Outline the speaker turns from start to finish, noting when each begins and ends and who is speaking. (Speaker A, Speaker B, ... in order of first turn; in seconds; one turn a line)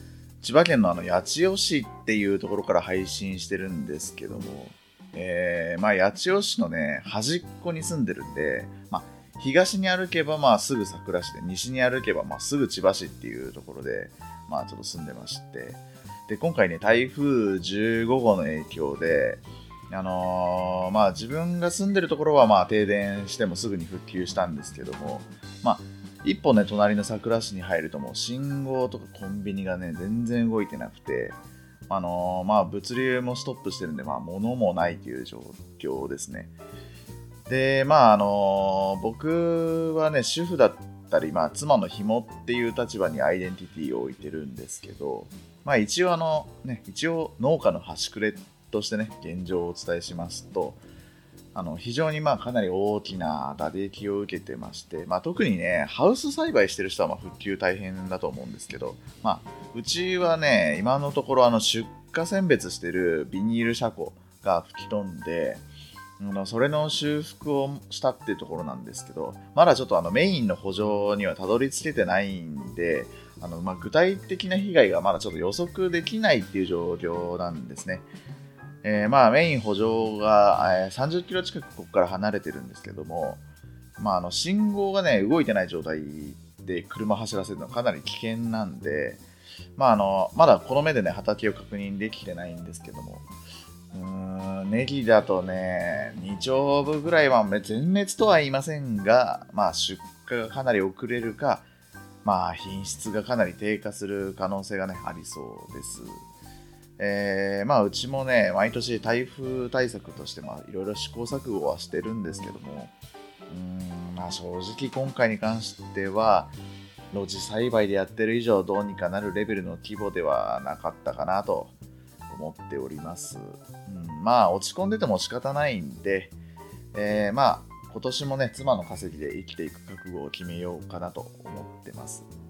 Speaker A: 0.4-31.4
Speaker A: 31.9-36.5
Speaker A: 37.5-50.8
Speaker A: 51.5-65.6
Speaker A: 66.2-78.1
Speaker A: 78.8-83.4
Speaker A: 84.0-89.2
Speaker A: 89.8-93.2
Speaker A: 93.9-101.7
Speaker A: 102.2-106.2
Speaker A: 107.0-112.9
Speaker A: 113.5-116.5
Speaker A: 117.1-121.7
Speaker A: 122.3-126.3
Speaker A: 126.9-132.3